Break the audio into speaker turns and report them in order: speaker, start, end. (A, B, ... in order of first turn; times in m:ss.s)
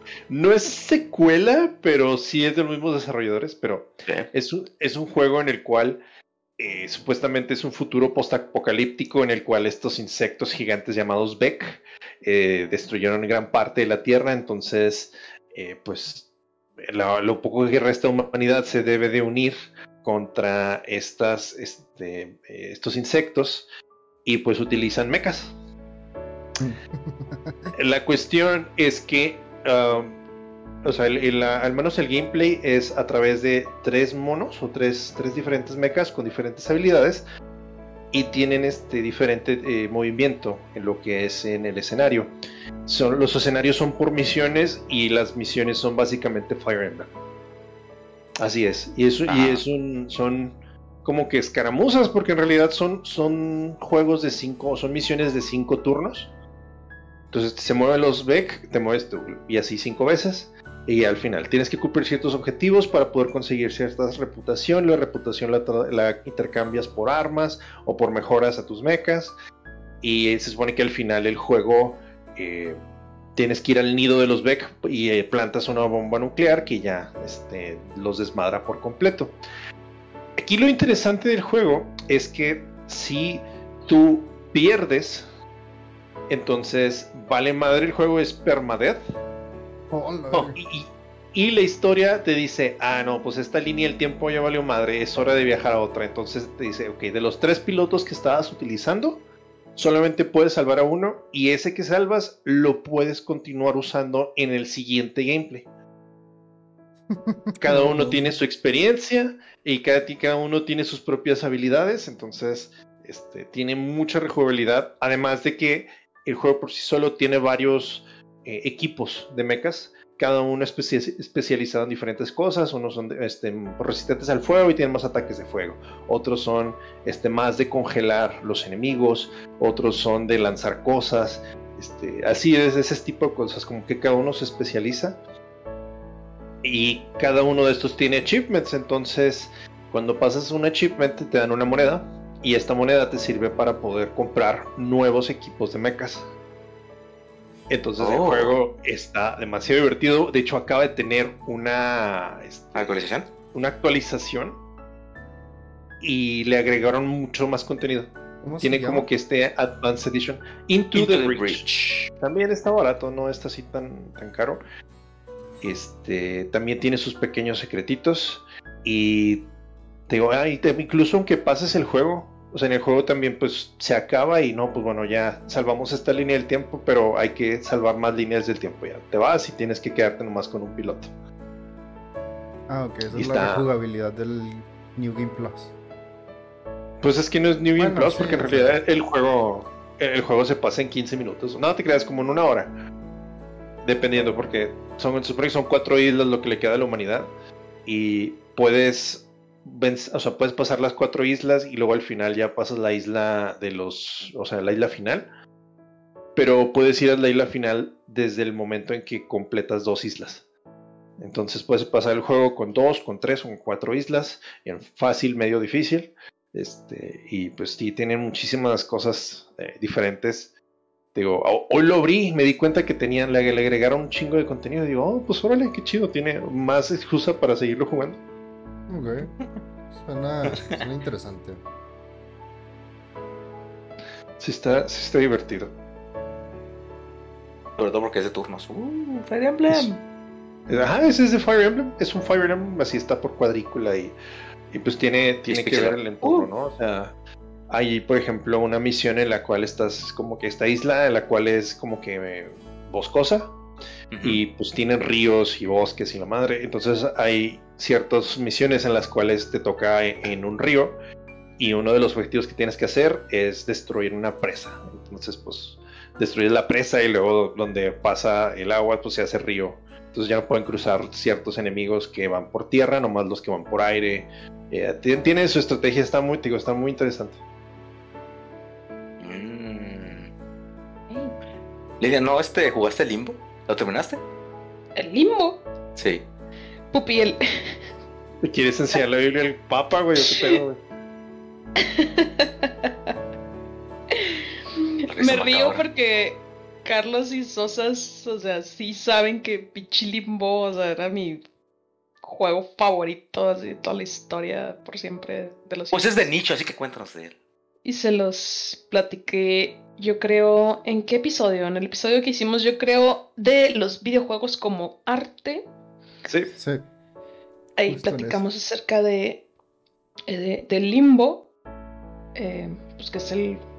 0:00.3-0:06.0 A
0:06.6-0:16.3 A
0:16.9-0:23.7 A
0:24.2-0:25.5 A
0:26.6-0:27.7 B
0:27.7-0:30.2 A
0:30.8-0:37.2 A
0:38.1-0:42.3 A
0:42.9-0:47.1 A
0:48.4-0:56.3 A
0:49.3-0:49.6 C
0:57.3-1:09.4 A
1:10.0-1:12.8 A
1:13.4-1:19.4 A
1:20.4-1:25.2 A
1:26.3-1:29.0 A
1:29.9-1:30.6 B
1:30.6-1:39.2 A
1:39.8-1:45.7 A
1:47.1-1:48.3 B
1:47.6-2:15.2 A
2:16.6-2:26.3 A
2:27.7-2:33.0 A
2:28.0-2:28.6 C
2:32.8-2:33.3 C
2:33.5-2:34.6 A
2:36.0-2:41.6 A
2:38.4-2:39.1 B
2:40.9-2:42.1 C
2:42.2-2:44.6 A
2:45.6-2:49.5 A
2:50.1-3:01.1 A
3:02.7-3:05.7 B
3:03.1-3:03.7 A
3:07.0-3:12.8 A
3:07.8-3:08.8 B
3:13.8-3:17.3 A
3:17.9-3:25.3 A
3:26.4-3:30.4 A
3:31.2-3:40.5 A
3:41.1-3:48.2 A
3:48.9-3:49.4 B
3:49.9-3:51.6 B
3:54.4-3:55.7 A
3:57.8-4:00.0 C
4:00.7-4:04.2 A
4:04.7-4:07.2 A
4:05.5-4:06.5 C
4:07.7-4:13.5 A
4:14.1-4:14.4 C
4:14.2-4:21.0 A
4:21.6-4:37.4 A
4:39.2-4:40.3 C
4:41.1-4:41.4 D
4:42.0-4:44.2 C
4:45.0-4:45.6 D
4:46.0-4:46.2 C
4:46.9-4:47.8 D
4:48.4-4:50.8 A
4:50.2-4:50.6 D
4:51.8-4:52.9 D
4:54.1-5:01.4 D
4:55.1-4:55.8 C
5:02.2-5:06.3 D
5:05.9-5:07.4 C
5:07.8-5:15.7 D
5:16.3-5:16.5 A
5:16.6-5:16.8 B
5:17.8-5:19.5 D
5:17.9-5:18.4 B
5:20.3-5:21.5 D
5:22.4-5:23.6 D